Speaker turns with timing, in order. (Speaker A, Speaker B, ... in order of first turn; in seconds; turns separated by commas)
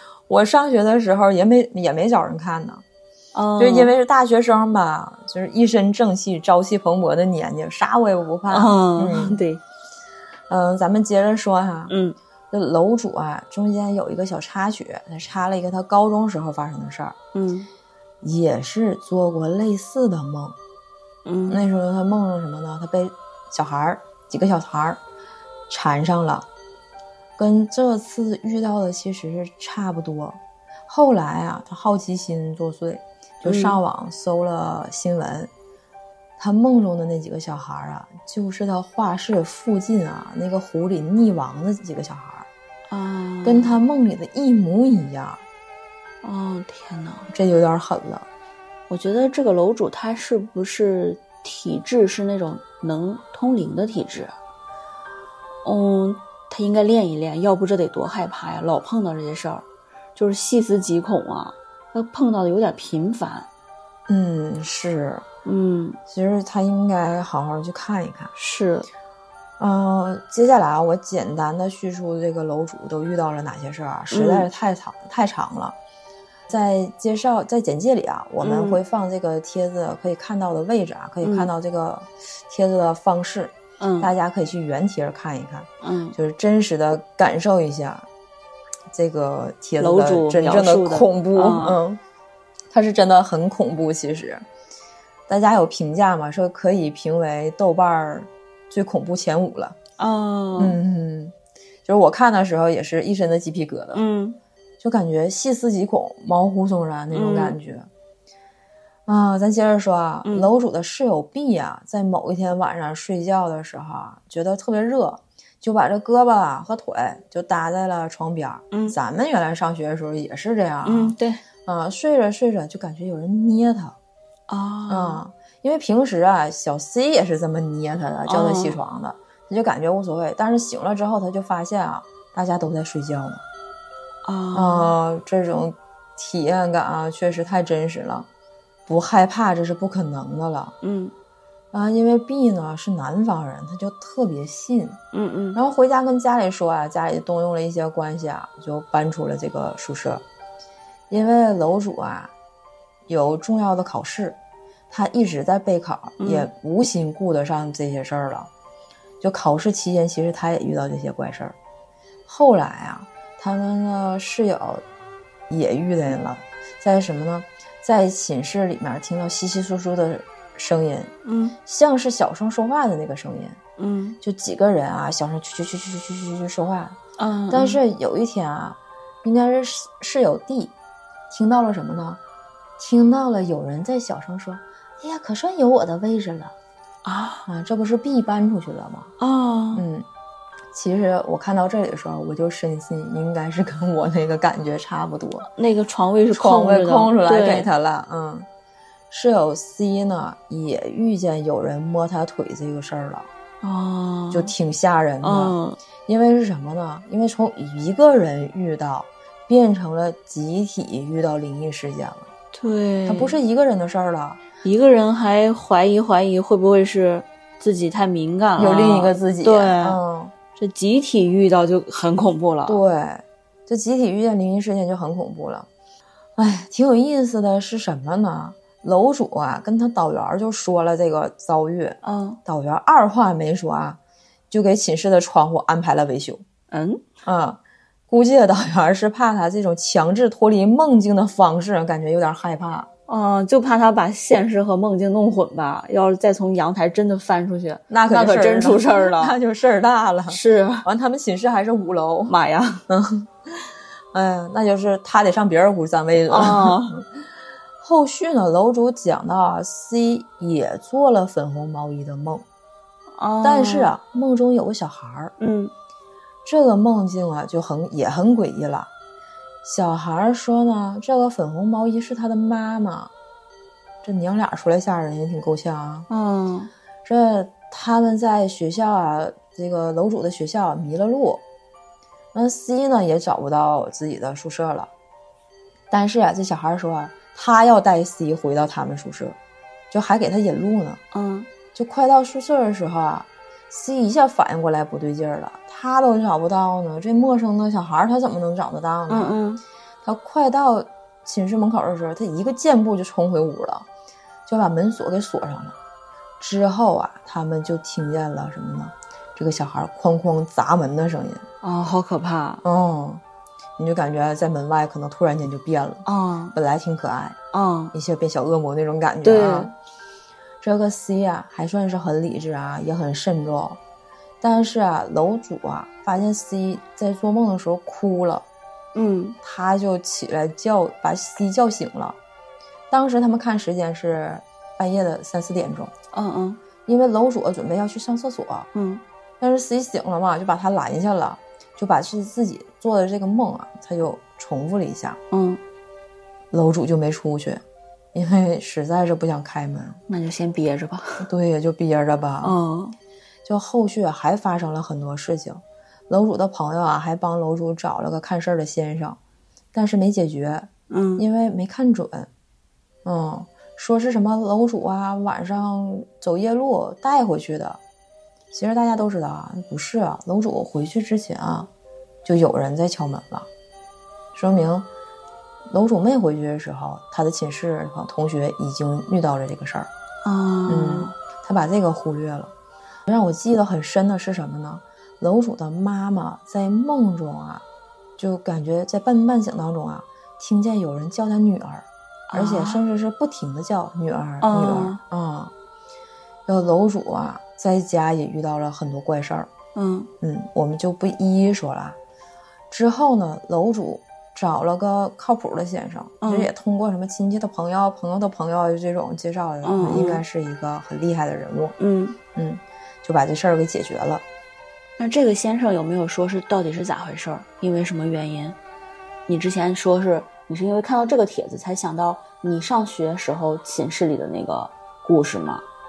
Speaker A: 0.3-2.8, Speaker B: 3.3-3.9, Speaker A: 3.6-9.4, Speaker B: 8.5-9.6, Speaker A: 10.5-11.9, Speaker B: 11.9-12.2, Speaker A: 12.5-17.2, Speaker B: 17.3-17.7, Speaker A: 18.2-20.6, Speaker B: 21.2-21.6, Speaker A: 21.5-25.0, Speaker A: 25.7-26.5, Speaker A: 27.4-35.5, Speaker B: 33.5-33.8, Speaker A: 36.4-42.5, Speaker B: 42.9-43.8, Speaker A: 43.4-45.4, Speaker B: 46.2-47.3, Speaker A: 47.3-48.3, Speaker B: 48.9-54.3, Speaker B: 55.6-59.6, Speaker B: 60.2-63.5, Speaker A: 64.1-65.2, Speaker B: 65.5-66.0, Speaker A: 66.1-68.3, Speaker B: 68.4-68.9, Speaker A: 69.6-75.8, Speaker B: 74.1-74.5, Speaker A: 76.5-88.1, Speaker B: 78.4-78.8, Speaker B: 81.2-81.5, Speaker B: 83.8-84.1, Speaker B: 85.8-86.2, Speaker A: 88.9-92.0, Speaker B: 89.8-91.8, Speaker A: 92.7-94.4, Speaker A: 95.3-99.8, Speaker B: 100.0-100.8, Speaker A: 100.6-101.3, Speaker A: 101.9-104.0, Speaker B: 103.9-104.4, Speaker A: 104.8-107.9, Speaker B: 107.1-107.6, Speaker A: 109.1-124.0, Speaker B: 110.2-110.5, Speaker B: 120.8-121.4, Speaker B: 124.5-125.2, Speaker A: 124.9-133.4, Speaker B: 128.3-128.8, Speaker B: 134.2-134.9, Speaker A: 134.5-138.3, Speaker A: 138.9-140.7, Speaker B: 140.8-141.1, Speaker A: 141.7-145.0, Speaker B: 145.1-145.6, Speaker A: 145.6-150.2, Speaker A: 151.1-152.3, Speaker A: 153.1-154.4, Speaker A: 154.9-158.5, Speaker B: 156.2-156.5, Speaker A: 159.2-161.5, Speaker A: 162.3-164.8, Speaker A: 165.5-171.1, Speaker B: 171.2-171.6, Speaker A: 171.7-173.6, Speaker B: 173.8-174.2, Speaker A: 174.2-177.0, Speaker B: 177.2-177.8, Speaker A: 177.5-180.7, Speaker A: 181.3-182.2, Speaker A: 182.8-186.5, Speaker B: 187.0-187.5, Speaker A: 187.5-189.1, Speaker B: 189.2-189.8, Speaker A: 189.7-190.1, Speaker A: 190.7-195.5, Speaker B: 195.5-197.7, Speaker A: 196.3-198.5, Speaker A: 199.1-203.3, Speaker B: 203.6-204.5, Speaker A: 204.3-212.3, Speaker B: 205.2-205.8, Speaker B: 212.5-213.4, Speaker A: 213.1-214.4, Speaker B: 214.6-220.0, Speaker A: 218.6-220.3, Speaker B: 220.6-222.8, Speaker A: 222.7-225.7, Speaker A: 226.4-234.0, Speaker B: 232.0-232.4, Speaker A: 234.5-236.4, Speaker B: 236.7-237.0, Speaker A: 237.2-242.9, Speaker B: 243.1-249.4, Speaker A: 247.9-252.3, Speaker B: 250.3-250.8, Speaker B: 252.3-252.8, Speaker A: 252.9-253.3, Speaker A: 254.1-257.1, Speaker B: 256.3-257.0, Speaker A: 257.8-262.4, Speaker B: 263.1-263.9, Speaker A: 263.4-265.3, Speaker B: 265.4-265.7, Speaker A: 266.4-268.9, Speaker A: 269.6-273.1, Speaker A: 274.0-276.1, Speaker B: 276.1-276.7, Speaker A: 277.1-281.4, Speaker A: 282.3-284.9, Speaker A: 285.9-289.4, Speaker A: 289.9-291.0, Speaker B: 291.1-291.5, Speaker A: 291.7-299.4, Speaker B: 299.1-299.6, Speaker A: 300.1-303.9, Speaker A: 304.5-305.8, Speaker A: 306.4-311.4, Speaker B: 311.6-312.6, Speaker A: 312.6-313.2, Speaker A: 313.8-317.4, Speaker B: 316.1-316.6, Speaker B: 317.5-317.9, Speaker A: 317.9-319.7, Speaker B: 319.2-319.7, Speaker A: 320.6-323.8, Speaker A: 324.4-328.5, Speaker B: 328.9-329.4, Speaker A: 329.4-332.2, Speaker A: 332.9-335.9, Speaker B: 336.1-336.6, Speaker A: 336.9-338.7, Speaker B: 338.7-339.0, Speaker A: 339.4-345.2, Speaker B: 345.3-345.6, Speaker A: 346.5-347.6, Speaker A: 348.1-350.0, Speaker B: 350.1-351.3, Speaker A: 351.2-352.6, Speaker B: 352.4-353.0, Speaker A: 353.4-359.2, Speaker A: 359.7-362.3, Speaker B: 360.9-361.2, Speaker A: 363.1-367.8, Speaker A: 368.5-371.7, Speaker A: 372.2-373.5, Speaker A: 374.3-374.9, Speaker A: 375.7-379.9, Speaker B: 380.2-381.1, Speaker A: 380.7-382.5, Speaker A: 383.1-387.6, Speaker A: 388.2-395.5, Speaker B: 392.3-392.8, Speaker B: 394.4-395.0, Speaker A: 396.5-399.5, Speaker B: 399.8-400.1, Speaker A: 400.2-402.0, Speaker A: 402.7-411.8, Speaker B: 406.2-406.5, Speaker B: 409.6-410.2, Speaker B: 411.8-412.2, Speaker A: 412.4-414.2, Speaker B: 415.0-418.6, Speaker B: 419.3-425.6